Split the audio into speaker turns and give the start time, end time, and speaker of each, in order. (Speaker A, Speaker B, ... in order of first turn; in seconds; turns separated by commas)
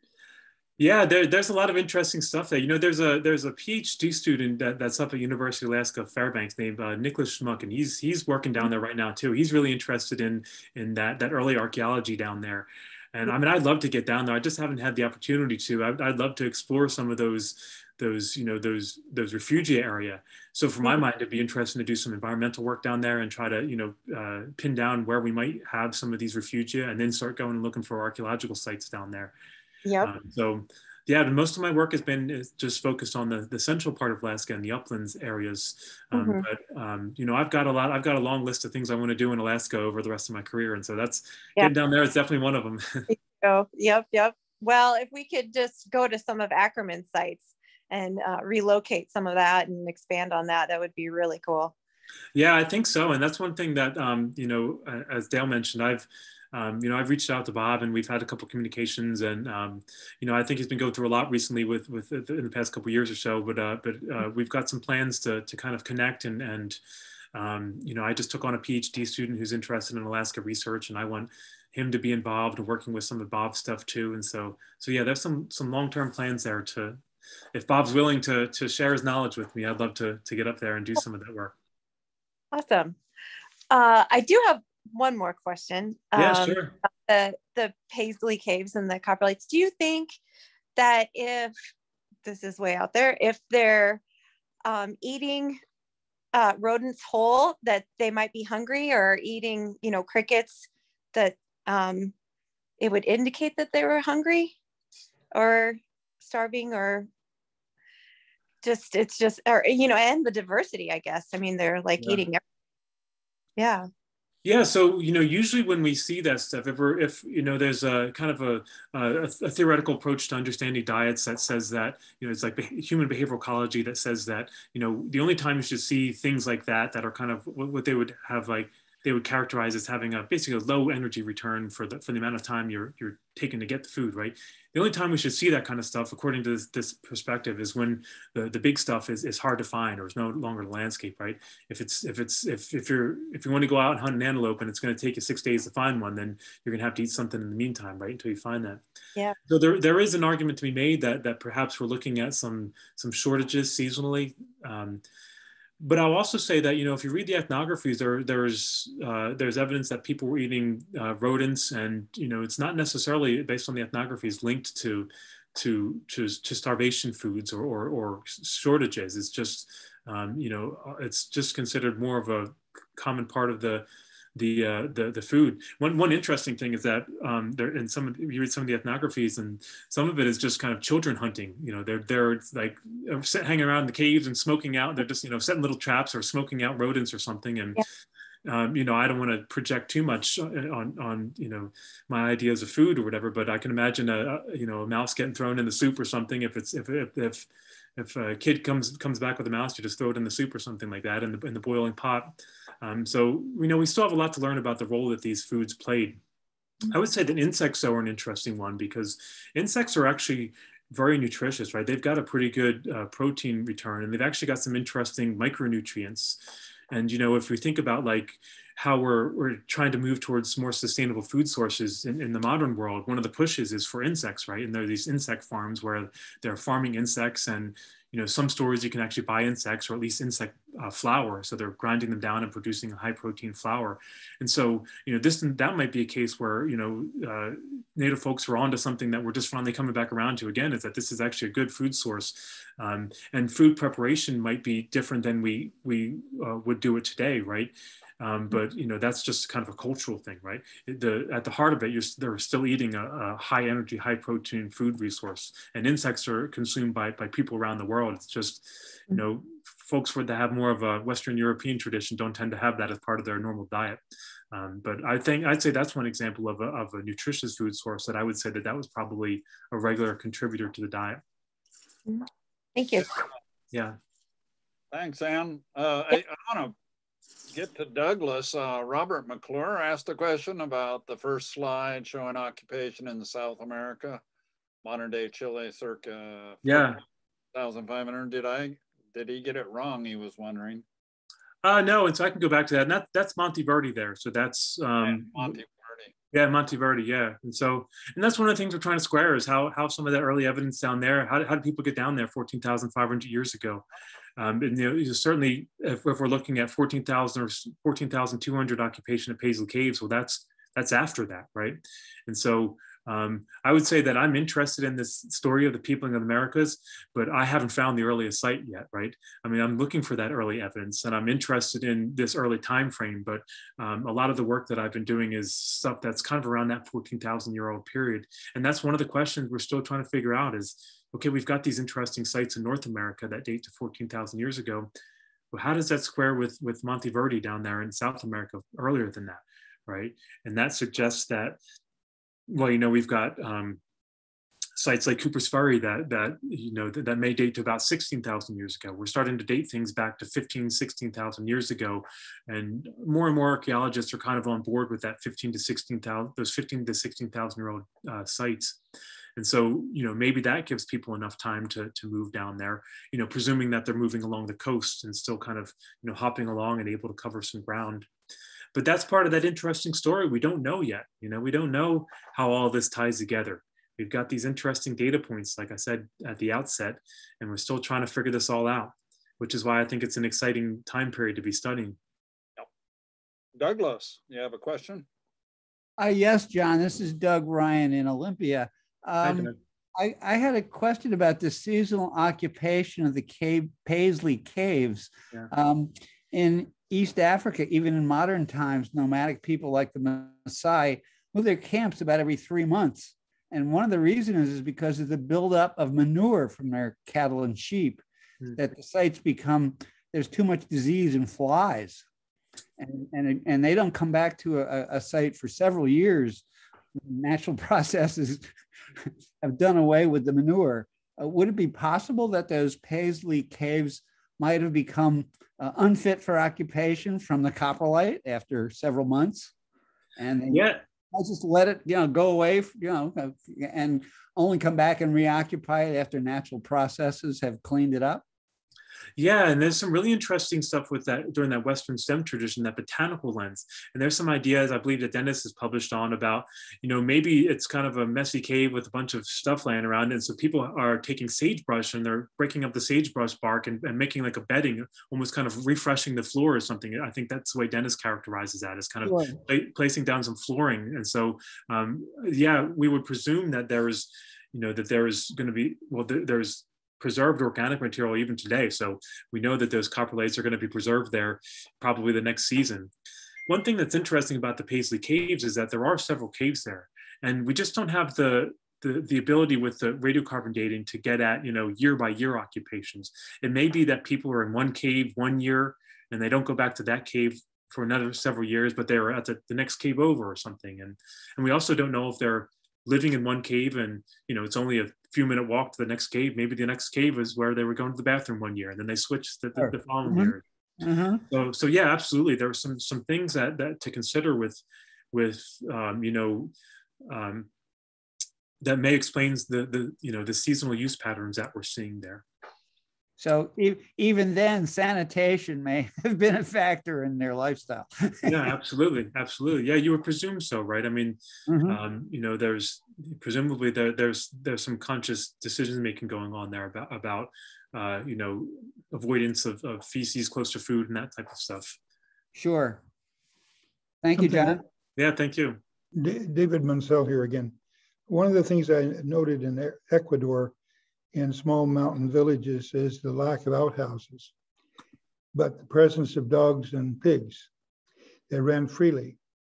Speaker A: 0.8-29.3, Speaker B: 29.8-30.1, Speaker A: 30.0-43.1, Speaker B: 36.1-36.4, Speaker B: 43.1-51.7, Speaker A: 52.3-66.8, Speaker A: 67.3-77.0, Speaker A: 77.5-81.5, Speaker B: 82.5-83.0, Speaker B: 83.7-90.2, Speaker A: 86.2-86.7, Speaker B: 90.8-91.5, Speaker B: 92.2-94.0, Speaker B: 94.6-95.6, Speaker B: 96.3-102.1, Speaker B: 102.8-104.5, Speaker B: 105.3-107.1, Speaker B: 108.6-112.4, Speaker B: 113.6-113.9, Speaker A: 114.4-148.8, Speaker A: 149.4-155.0, Speaker A: 155.8-187.8, Speaker A: 188.4-206.2, Speaker A: 206.9-264.0, Speaker A: 264.5-271.2, Speaker B: 272.1-273.2, Speaker A: 273.7-274.0, Speaker C: 274.9-276.7, Speaker C: 277.5-284.2, Speaker C: 284.8-287.0, Speaker A: 286.6-287.0, Speaker C: 287.5-290.8, Speaker A: 291.6-295.6, Speaker C: 295.0-296.1, Speaker A: 296.3-303.8, Speaker A: 304.4-334.9, Speaker A: 335.5-341.6, Speaker A: 342.5-343.8, Speaker A: 344.8-358.8, Speaker A: 359.4-368.1, Speaker A: 368.7-382.0, Speaker C: 383.6-385.1, Speaker D: 386.0-412.0, Speaker A: 389.2-389.5, Speaker D: 412.8-416.4, Speaker D: 417.0-418.5, Speaker D: 419.1-429.5, Speaker D: 430.2-438.2, Speaker A: 430.5-430.8, Speaker A: 439.2-472.9, Speaker D: 459.0-459.4, Speaker A: 473.5-500.4, Speaker D: 499.6-501.2, Speaker A: 501.3-506.5, Speaker A: 507.0-507.5, Speaker A: 508.6-512.2, Speaker D: 513.2-518.5, Speaker A: 518.2-531.8, Speaker D: 521.5-521.8, Speaker D: 532.3-532.8, Speaker D: 534.0-534.6, Speaker E: 534.2-534.5, Speaker A: 535.0-535.6, Speaker E: 535.9-540.5, Speaker E: 541.1-544.3, Speaker E: 545.3-547.5, Speaker E: 548.3-549.2